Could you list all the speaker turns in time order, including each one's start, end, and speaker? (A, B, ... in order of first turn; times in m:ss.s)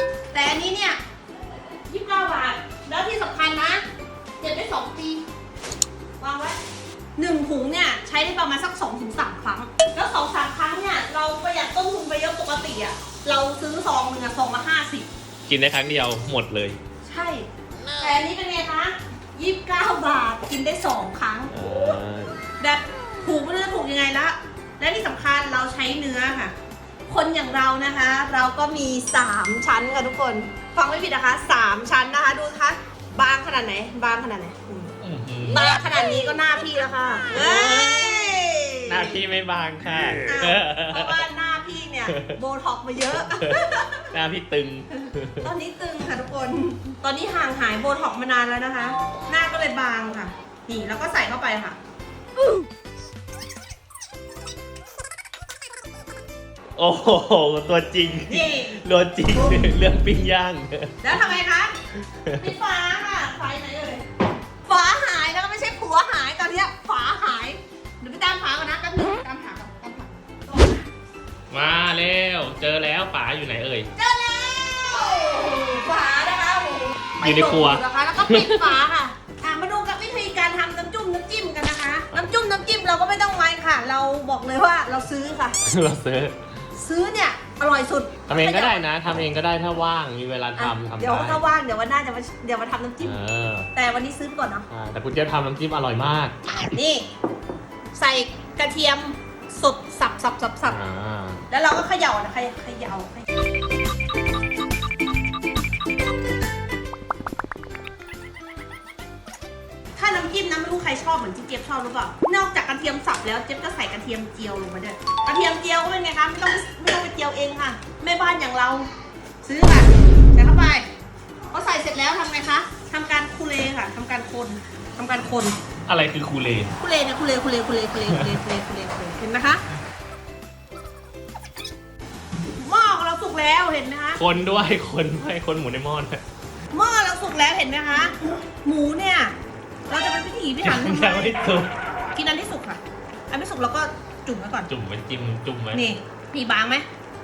0:00.3-0:01.0 A
0:01.9-0:03.8 A
0:04.4-0:05.2 A
0:06.2-0:06.6 A
0:07.2-0:15.1 A
0:15.5-0:16.8 B
0:17.0-0:21.9 A
0:21.5-0:22.4 B
0:22.6-0:26.5 A
0:27.1-0:39.2 A
0:35.0-0:35.7 B
0:37.4-0:38.1 B
0:38.9-0:41.2 B
0:40.3-0:44.1 A
0:42.1-0:42.4 B
0:43.2-0:45.5 B
0:44.9-0:51.8 A
0:56.8-1:01.0 B
0:58.3-0:58.8 A
0:59.3-0:59.6 A
1:01.0-1:01.7 A
1:02.2-1:02.5 B
1:02.4-1:04.0 A
1:04.7-1:10.8 A
1:11.5-1:13.9 B
1:14.0-1:25.6 A
1:17.2-1:18.8 B
1:25.6-1:26.5 B
1:26.7-1:28.8 A
1:28.3-1:31.4 B
1:30.6-1:33.2 A
1:33.0-1:33.7 B
1:33.7-1:34.7 A
1:34.7-1:36.4 B
1:36.5-1:37.1 A
1:37.9-1:40.8 A
1:40.7-1:41.4 B
1:41.5-1:43.3 A
1:50.0-1:58.9 A
1:59.4-2:00.9 A
2:01.5-2:05.6 A
2:05.9-2:06.8 B
2:06.8-2:09.6 A
2:08.1-2:08.4 B
2:12.5-2:14.2 A
2:14.2-2:16.2 B
2:16.7-2:19.4 A
2:19.9-2:21.4 A
2:20.6-2:21.7 B
2:22.2-2:24.7 A
2:24.7-2:25.8 B
2:25.7-2:26.9 A